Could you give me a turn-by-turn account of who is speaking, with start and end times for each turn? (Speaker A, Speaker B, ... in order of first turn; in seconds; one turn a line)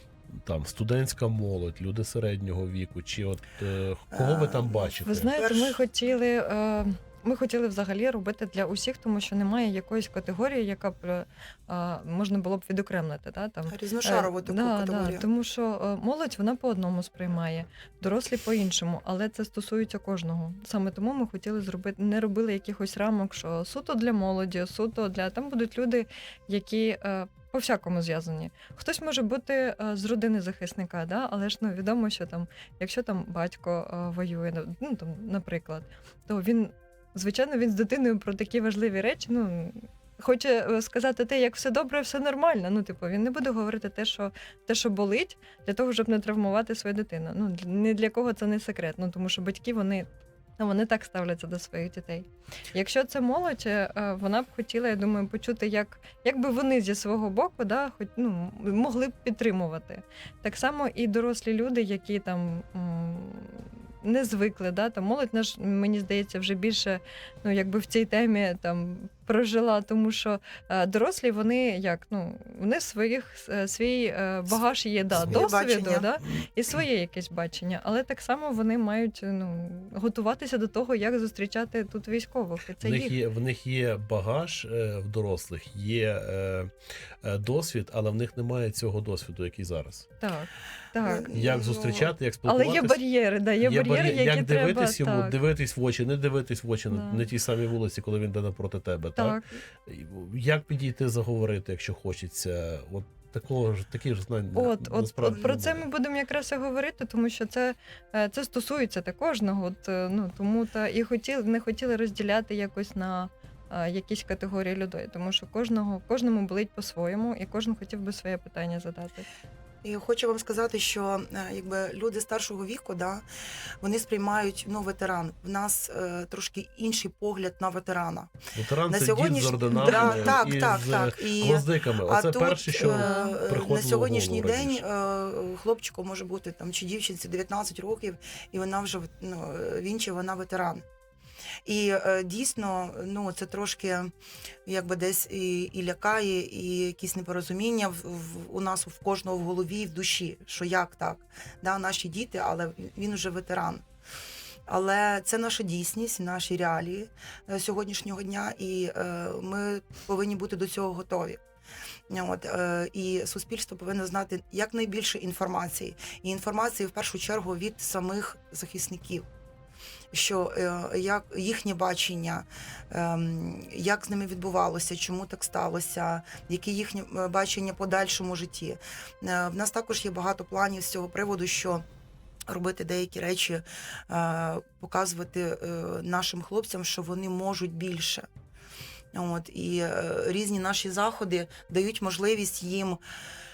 Speaker A: 0.3-5.3
Speaker B: 4.1-5.8
Speaker C: 5.0-83.2
Speaker B: 13.7-15.2
Speaker A: 75.1-75.4
Speaker B: 75.1-76.1
Speaker A: 82.8-86.7
Speaker A: 87.2-90.1
Speaker C: 90.2-91.3
Speaker B: 91.0-92.1
Speaker A: 91.3-93.0
Speaker C: 92.4-95.3
Speaker A: 93.6-105.8
Speaker C: 96.9-97.3
Speaker C: 99.2-99.5
Speaker C: 104.5-119.2
Speaker B: 119.8-123.2
Speaker B: 123.8-128.3
Speaker A: 128.5-134.8
Speaker B: 128.9-140.8
Speaker C: 129.7-130.4
Speaker C: 132.8-133.4
Speaker B: 141.7-144.1
Speaker B: 144.7-153.8
Speaker B: 154.7-161.4
Speaker B: 162.1-169.2
Speaker B: 170.1-181.8
Speaker B: 182.5-188.3
Speaker B: 189.1-193.0